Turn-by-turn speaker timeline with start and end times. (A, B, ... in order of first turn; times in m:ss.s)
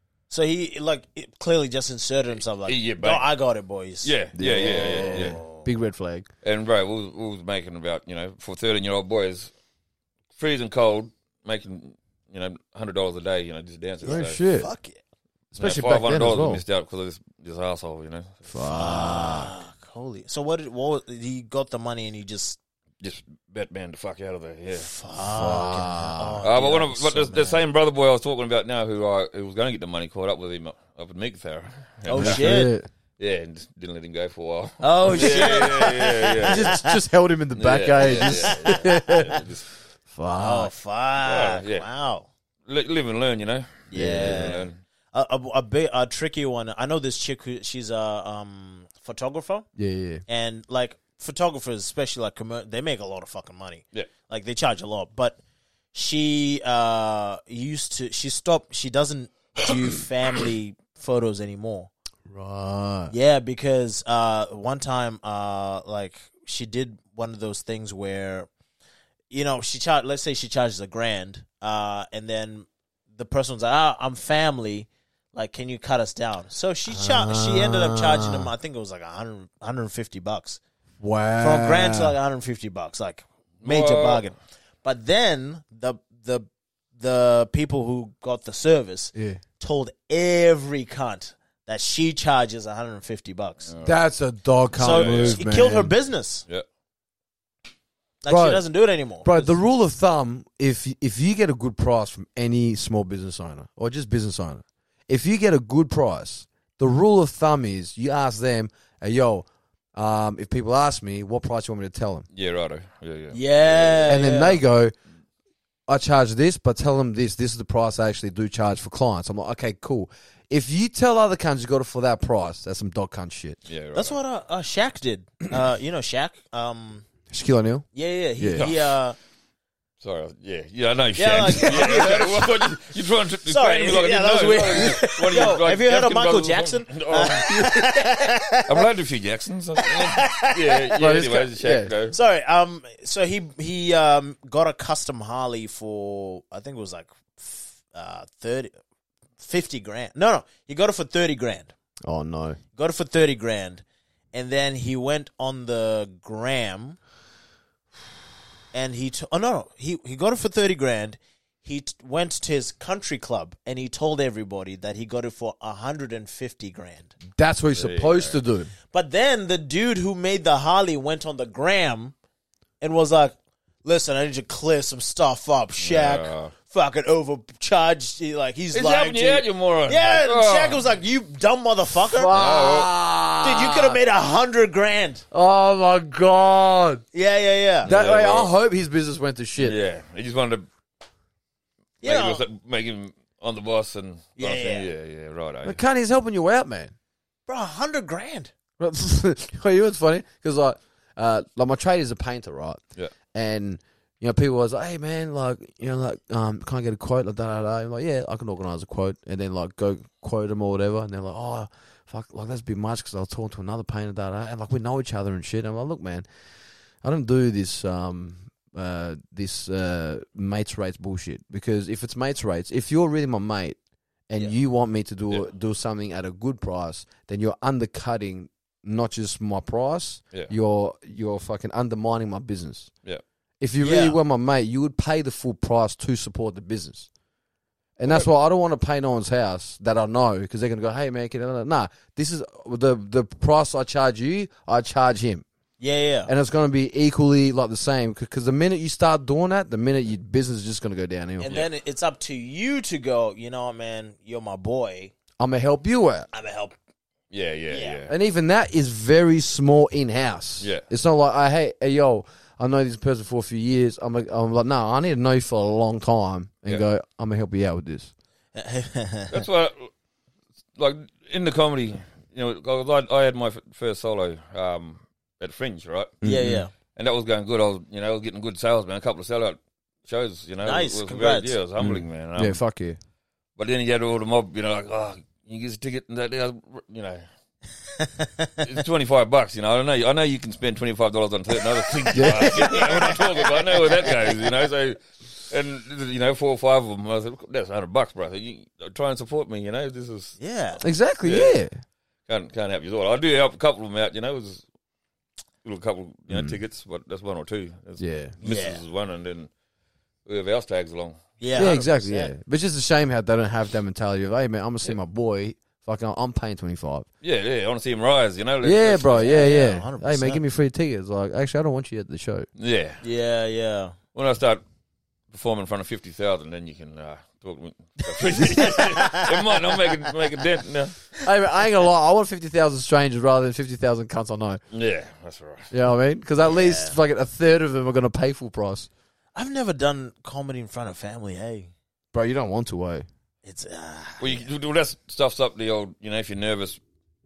0:00.3-0:04.1 A
0:02.6-0:03.3 B
0:04.0-0:05.4 B
0:04.4-0:06.3 C
0:04.6-0:05.6 A
0:06.4-0:09.5 B
0:10.4-0:14.4 B
0:14.0-0:15.0 A
0:14.0-0:14.7 C
0:15.5-0:16.6 C
0:15.6-0:18.9 B
0:18.5-0:19.5 C
0:18.7-0:22.6 A
0:23.0-0:24.9 B
0:24.7-0:27.6 A
0:25.2-0:26.4 C
0:26.4-0:32.6 B
0:32.0-0:32.7 A
0:32.1-0:32.8 C
0:33.2-0:36.8 B
0:34.8-0:36.9 A
0:35.2-0:35.5 C
0:36.4-0:39.4 C
0:37.5-0:39.7 B
0:38.0-0:39.4 A
0:40.1-0:40.7 C
0:40.4-0:42.3 A
0:41.2-0:41.9 B
0:42.7-0:44.8 B
0:43.9-0:49.6 A
0:43.9-0:44.5 C
0:49.8-0:50.2 C
0:50.3-0:55.4 A
0:55.9-1:01.9 A
1:02.3-1:03.1 C
1:03.1-1:08.5 A
1:09.3-1:20.6 A
1:16.9-1:18.5 C
1:21.0-1:22.1 C
1:21.4-1:33.7 A
1:23.6-1:24.2 B
1:29.1-1:29.4 C
1:33.7-1:33.9 B
1:33.8-1:35.9 C
1:34.8-1:36.4 A
1:34.8-1:35.4 B
1:38.2-1:39.5 A
1:38.3-1:38.6 C
1:39.2-1:52.2 C
1:52.3-1:54.2 B
1:53.3-1:54.6 A
1:54.1-1:54.9 C
1:55.9-2:03.6 C
2:03.7-2:04.2 B
2:03.9-2:07.0 A
2:07.3-2:07.9 C
2:07.9-2:09.2 A
2:08.4-2:08.6 C
2:08.6-2:09.0 B
2:10.0-2:17.5 B
2:11.2-2:12.6 A
2:13.4-2:18.7 A
2:15.0-2:15.3 C
2:17.5-2:18.0 C
2:18.6-2:22.2 B
2:19.8-2:21.2 A
2:21.0-2:21.9 C
2:22.1-2:28.7 A
2:29.4-2:31.7 A
2:32.0-2:32.6 C
2:32.8-2:37.0 A
2:38.7-2:47.1 A
2:47.4-2:48.7 C
2:47.7-2:48.4 B
2:48.9-2:52.1 A
2:52.8-3:02.3 A
2:55.8-2:56.5 B
2:58.7-3:00.8 B
3:02.1-3:04.0 C
3:02.3-3:02.9 B
3:03.4-3:05.2 A
3:05.3-3:07.0 C
3:07.1-3:07.9 A
3:07.8-3:08.5 B
3:07.8-3:09.8 C
3:09.6-3:10.6 B
3:12.0-3:12.4 A
3:12.0-3:15.8 B
3:14.4-3:14.9 A
3:15.6-3:16.9 C
3:17.5-3:18.5 A
3:18.8-3:22.8 C
3:23.3-3:36.2 C
3:37.0-3:43.8 C
3:44.3-3:52.9 C
3:53.6-3:57.1 C
3:53.8-3:54.2 A
3:58.0-4:05.4 C
4:05.8-4:06.3 A
4:06.2-4:11.6 C
4:11.4-4:15.1 A
4:15.4-4:16.3 C
4:16.3-4:16.8 A
4:17.3-4:18.1 B
4:17.7-4:18.0 A
4:18.1-4:28.1 C
4:28.5-4:29.3 A
4:29.3-4:29.9 B
4:30.8-4:36.1 B
4:36.2-4:36.6 C
4:36.2-4:36.7 A
4:36.9-4:42.6 B
4:40.6-4:41.6 A
4:41.8-4:43.0 C
4:43.6-4:47.2 B
4:48.6-5:00.4 B
4:52.1-4:52.8 C
4:52.5-4:53.2 A
5:00.4-5:00.8 A
5:00.8-5:01.7 C
5:01.2-5:01.6 B
5:02.3-5:04.6 B
5:05.6-5:09.5 B
5:06.3-5:06.6 C
5:08.0-5:08.3 C
5:08.4-5:08.8 A
5:10.2-5:11.7 B
5:11.4-5:12.3 A
5:11.5-5:17.1 C
5:17.2-5:19.4 B
5:18.6-5:22.5 C
5:19.2-5:20.4 A
5:22.6-5:23.0 B
5:23.0-5:24.0 A
5:24.1-5:24.6 B
5:25.3-5:31.0 B
5:28.5-5:29.3 A
5:31.2-5:34.6 C
5:34.7-5:35.7 B
5:35.7-5:38.9 C
5:36.4-5:37.0 A
5:39.3-5:41.7 A
5:42.1-5:43.0 C
5:43.4-5:44.5 A
5:44.2-5:46.8 B